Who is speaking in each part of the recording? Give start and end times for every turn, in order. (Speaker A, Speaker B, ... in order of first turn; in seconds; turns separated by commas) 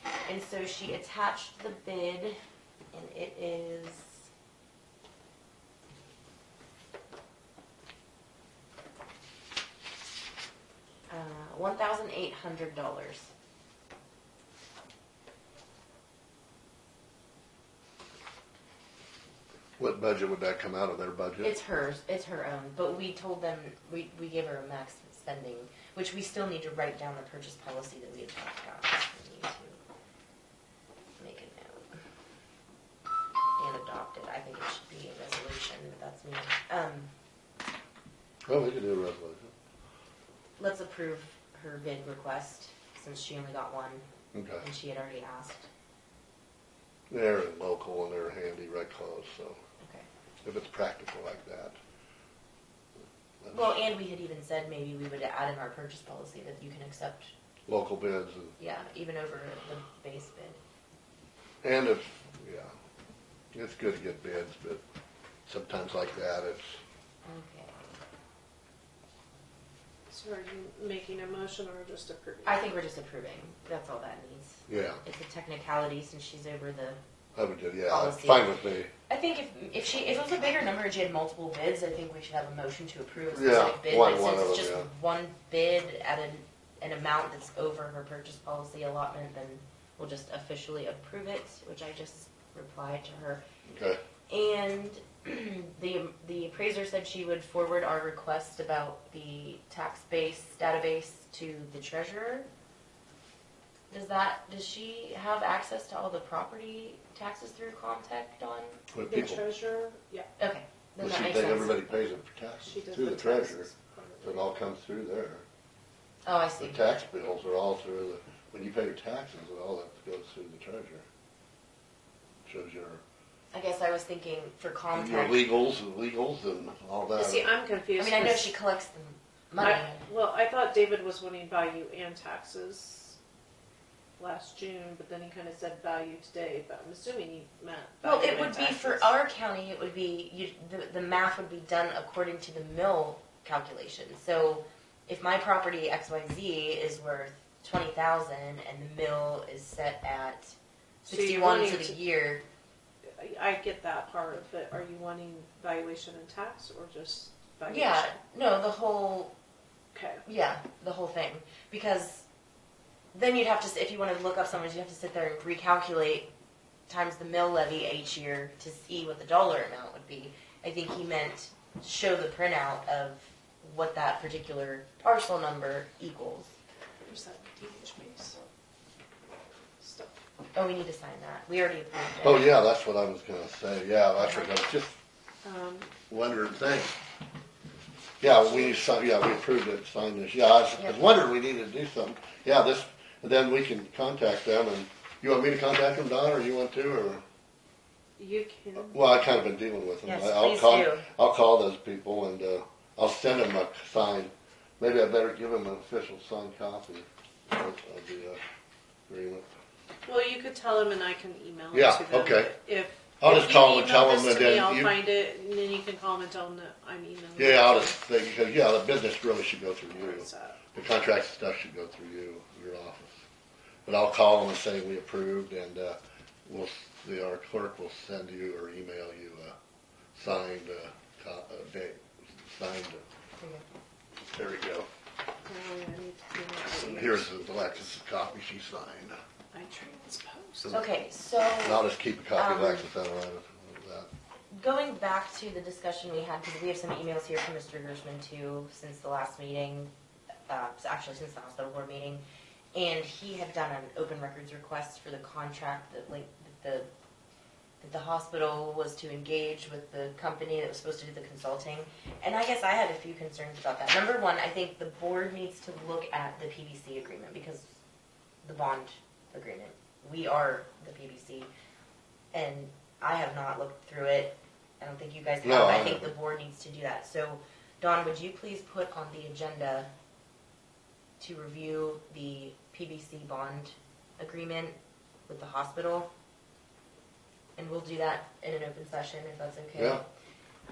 Speaker A: 0.2-2.4, Speaker A: 2.9-4.2, Speaker A: 11.1-13.3, Speaker B: 19.8-21.5, Speaker A: 21.4-29.8, Speaker A: 31.2-32.0, Speaker A: 33.5-37.1, Speaker B: 38.5-39.5, Speaker A: 40.6-44.0, Speaker B: 44.3-44.6, Speaker A: 44.6-45.7, Speaker B: 47.1-49.6, Speaker A: 49.8-50.0, Speaker B: 50.4-51.8, Speaker B: 53.4-53.8, Speaker A: 53.5-57.3, Speaker B: 57.7-58.5, Speaker A: 58.6-60.6, Speaker B: 61.6-62.7, Speaker B: 63.5-64.8, Speaker B: 65.5-66.8, Speaker A: 67.2-67.9, Speaker C: 70.1-72.7, Speaker A: 72.5-77.0, Speaker B: 74.7-75.0, Speaker B: 77.3-78.9, Speaker A: 77.9-78.5, Speaker A: 79.1-93.4, Speaker B: 83.3-84.9, Speaker B: 93.7-94.0, Speaker A: 94.3-102.5, Speaker A: 103.9-108.8, Speaker B: 108.9-109.4, Speaker C: 109.1-110.3, Speaker A: 110.4-111.8, Speaker B: 111.0-113.7, Speaker C: 112.6-114.5, Speaker B: 114.2-115.4, Speaker A: 116.2-116.8, Speaker B: 116.6-121.0, Speaker B: 122.5-123.0, Speaker A: 123.5-125.5, Speaker B: 124.9-127.5, Speaker C: 127.1-128.5, Speaker A: 128.0-130.0, Speaker C: 129.6-133.2, Speaker C: 134.2-139.1, Speaker A: 138.0-152.4, Speaker C: 151.1-152.0, Speaker C: 153.2-158.2, Speaker A: 157.7-159.3, Speaker C: 159.9-160.2, Speaker A: 160.2-162.2, Speaker A: 163.1-166.3, Speaker A: 166.9-176.5, Speaker C: 177.1-178.4, Speaker C: 179.8-180.2, Speaker A: 180.5-182.5, Speaker B: 182.2-184.9, Speaker A: 184.2-184.5, Speaker C: 185.4-185.9, Speaker B: 186.1-186.9, Speaker B: 188.2-197.2, Speaker A: 190.8-191.0, Speaker C: 198.2-199.0, Speaker B: 198.9-208.4, Speaker A: 200.0-201.1, Speaker B: 209.1-209.5, Speaker C: 210.1-217.9, Speaker B: 211.7-212.5, Speaker B: 213.2-214.9, Speaker B: 217.4-223.2, Speaker C: 219.9-220.6, Speaker B: 223.8-229.6, Speaker B: 230.1-233.1, Speaker B: 234.3-234.9, Speaker C: 235.4-237.4, Speaker B: 236.8-239.2, Speaker C: 239.5-240.8, Speaker A: 240.7-242.9, Speaker B: 241.6-244.1, Speaker A: 244.5-249.9, Speaker A: 250.5-252.2, Speaker A: 252.7-256.9, Speaker A: 257.8-267.8, Speaker A: 268.4-271.5, Speaker A: 272.3-279.9, Speaker B: 275.4-276.1, Speaker A: 281.2-284.7, Speaker A: 285.3-286.1, Speaker A: 287.6-290.1, Speaker B: 289.8-290.0